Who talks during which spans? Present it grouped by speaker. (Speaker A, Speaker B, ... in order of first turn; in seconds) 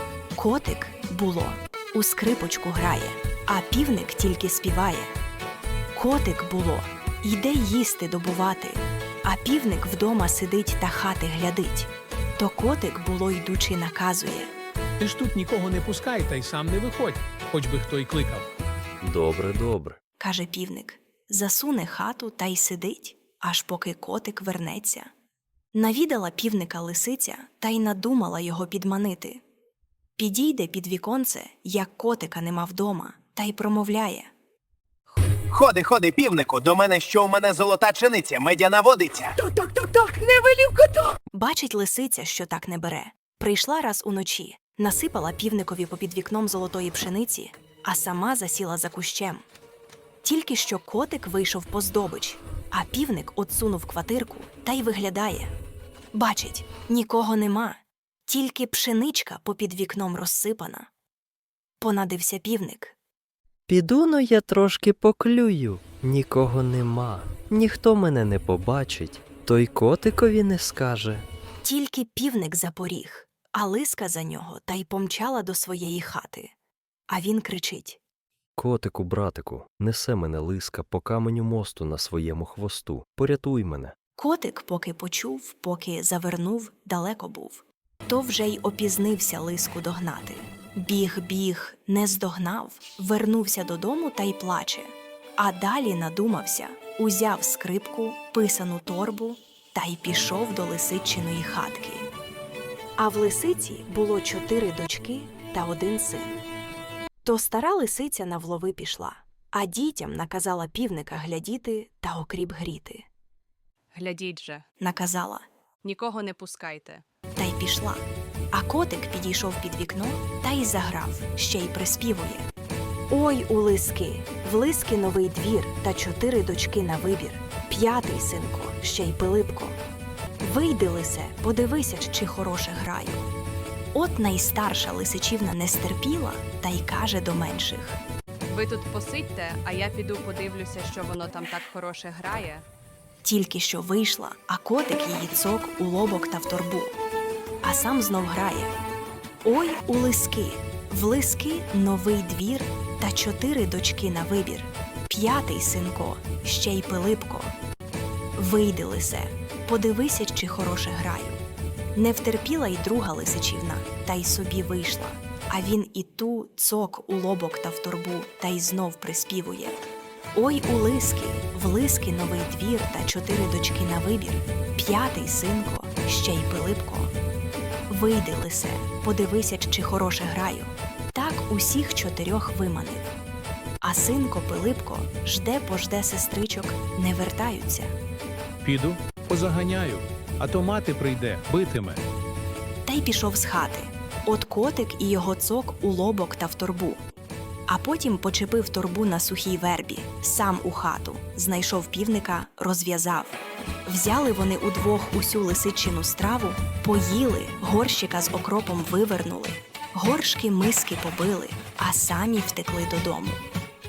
Speaker A: 0.3-5.1, 5.9-14.5, 20.2-25.1, 25.7-29.4, 30.2-34.3, 41.3-49.4, 50.2-55.5, 56.1-60.9, 61.8-62.9, 71.6-76.5, 77.1-78.0, 84.2-102.1, 103.0-106.4, 107.2-113.1, 114.8-115.4, 117.4-118.0, 118.5-122.4, 123.1-129.8, 130.4-133.3, 133.9-138.0, 143.2-146.9, 147.6-148.7, 149.4-157.5, 158.3-161.4, 161.9-177.1, 177.9-183.1, 183.8-187.9, 192.8-197.0, 197.7-213.4
Speaker B: 15.0-18.5, 188.6-192.0
Speaker C: 19.0-20.0, 63.7-71.2, 78.6-83.9
Speaker D: 35.5-39.4
Speaker E: 113.9-114.6, 115.8-117.0, 138.5-142.6